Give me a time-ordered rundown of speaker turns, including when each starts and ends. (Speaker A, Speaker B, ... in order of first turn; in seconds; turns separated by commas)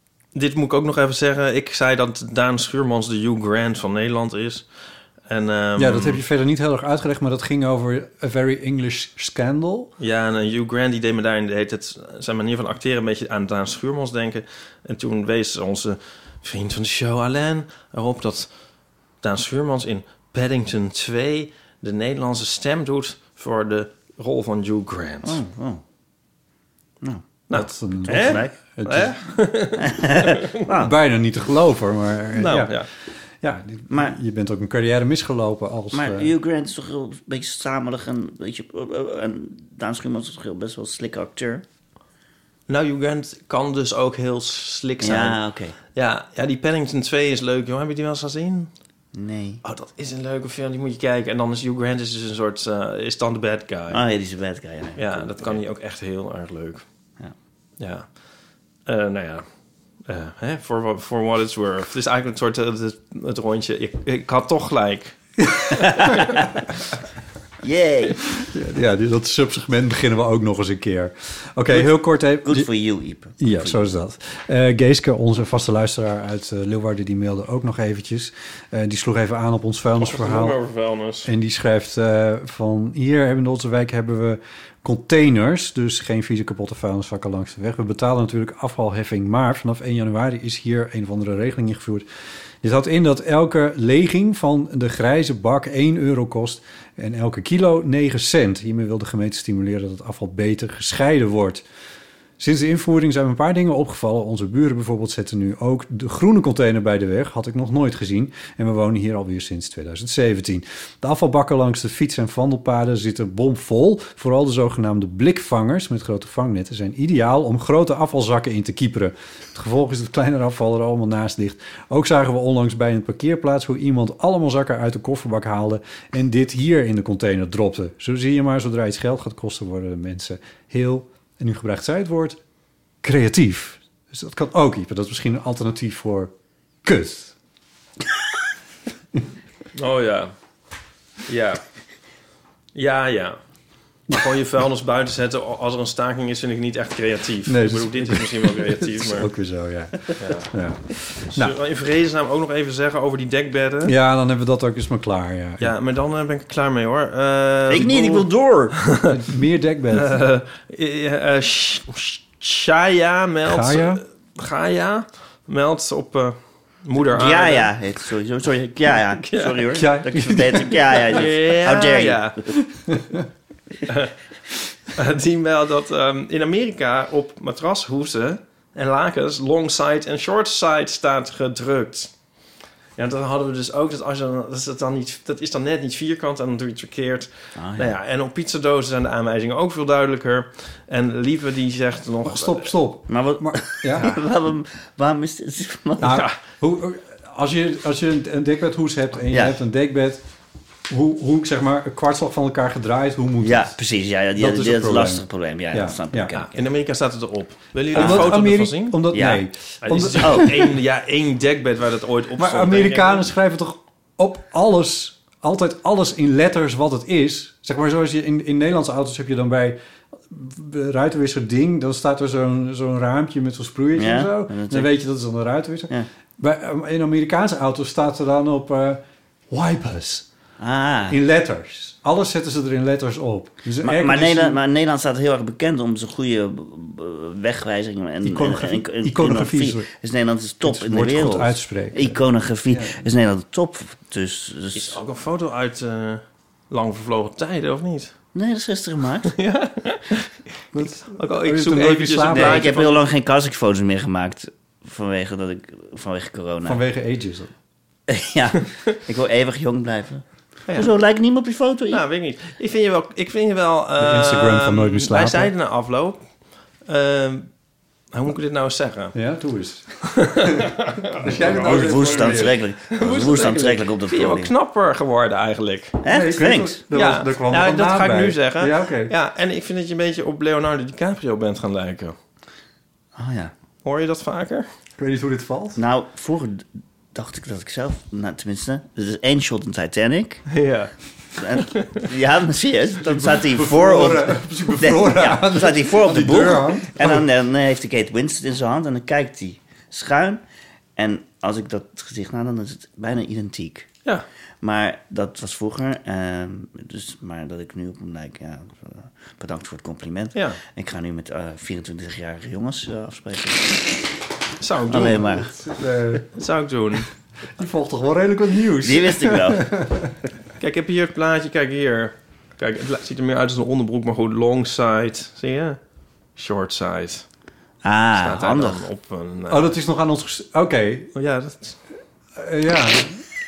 Speaker A: 0.3-4.7, Speaker A: 5.3-6.2, Speaker B: 5.8-9.9, Speaker A: 10.0-18.5, Speaker A: 19.2-25.4, Speaker C: 25.2-25.8, Speaker C: 27.0-27.3, Speaker A: 27.5-30.4, Speaker B: 27.5-29.1, Speaker C: 28.0-28.5, Speaker C: 29.8-30.9, Speaker B: 30.8-32.8, Speaker A: 32.4-32.9, Speaker B: 33.4-36.3, Speaker C: 33.9-34.2, Speaker C: 35.9-41.6, Speaker A: 42.7-45.4, Speaker C: 45.0-45.8, Speaker A: 45.9-48.7, Speaker C: 49.1-49.6, Speaker A: 49.6-54.0, Speaker C: 53.9-55.6, Speaker A: 55.0-56.8, Speaker A: 57.8-58.1, Speaker A: 58.9-59.4, Speaker A: 60.0-65.2, Speaker B: 65.4-65.8, Speaker C: 65.8-66.4, Speaker A: 66.0-66.4, Speaker C: 67.6-68.2, Speaker B: 68.4-72.7, Speaker C: 71.7-73.9, Speaker B: 73.4-80.6, Speaker A: 80.0-81.3, Speaker B: 81.2-92.0, Speaker B: 92.6-101.6, Speaker B: 102.4-132.4, Speaker B: 133.0-136.3, Speaker B: 136.8-137.3, Speaker A: 139.7-140.3, Speaker A: 141.3-141.6, Speaker A: 142.7-143.4, Speaker A: 144.1-149.3, Speaker B: 147.5-151.5, Speaker A: 150.2-150.5, Speaker A: 151.2-153.9, Speaker B: 153.8-155.7, Speaker A: 155.6-159.1, Speaker C: 157.7-158.8, Speaker B: 159.1-160.2, Speaker A: 159.9-167.7, Speaker B: 163.4-164.0, Speaker C: 167.0-172.5, Speaker A: 169.3-169.8, Speaker B: 169.7-171.0, Speaker A: 171.1-172.4, Speaker B: 172.9-173.2, Speaker A: 173.9-174.1, Speaker A: 174.9-182.1, Speaker A: 182.9-192.7, Speaker C: 187.6-187.9, Speaker B: 192.2-194.1, Speaker C: 193.1-196.2, Speaker B: 196.0-200.2, Speaker C: 199.3-199.6, Speaker B: 200.9-203.7, Speaker C: 203.4-206.6, Speaker B: 204.4-206.3, Speaker A: 206.3-209.0, Speaker C: 207.9-208.4, Speaker B: 207.9-210.5, Speaker C: 209.1-209.4, Speaker A: 209.8-213.2, Speaker C: 210.2-210.5, Speaker B: 212.4-219.8, Speaker B: 220.3-230.3, Speaker C: 223.9-224.9, Speaker C: 230.6-231.2, Speaker B: 231.1-234.6, Speaker C: 233.8-245.0, Speaker B: 238.2-239.9, Speaker B: 240.6-243.0, Speaker A: 244.7-248.1, Speaker C: 248.3-249.3, Speaker A: 249.3-253.0, Speaker B: 250.7-252.7, Speaker C: 252.3-256.8, Speaker B: 256.6-257.5, Speaker C: 258.1-262.0, Speaker A: 261.9-266.2, Speaker B: 264.0-265.5, Speaker A: 266.9-267.5, Speaker A: 268.1-269.1, Speaker B: 269.1-272.6, Speaker A: 270.1-272.3, Speaker C: 271.3-274.5, Speaker A: 272.9-276.0, Speaker C: 276.0-276.8, Speaker B: 276.1-279.1, Speaker A: 276.9-282.1, Speaker C: 283.1-283.5, Speaker A: 283.8-284.7, Speaker B: 285.0-285.8, Speaker C: 285.8-290.5, Speaker A: 290.5-290.9, Speaker C: 291.4-300.4, Speaker A: 291.5-292.1, Speaker B: 293.0-297.3, Speaker C: 300.9-303.9, Speaker C: 304.6-314.0, Speaker A: 310.3-310.6, Speaker A: 314.6-315.2, Speaker C: 314.9-315.5, Speaker B: 315.2-316.2, Speaker A: 316.3-317.1, Speaker B: 317.6-320.2, Speaker C: 318.8-319.6, Speaker A: 320.6-325.8, Speaker A: 326.4-327.2, Speaker C: 327.8-328.8, Speaker A: 328.2-329.7, Speaker B: 329.5-331.1, Speaker A: 331.1-331.8, Speaker B: 332.4-333.2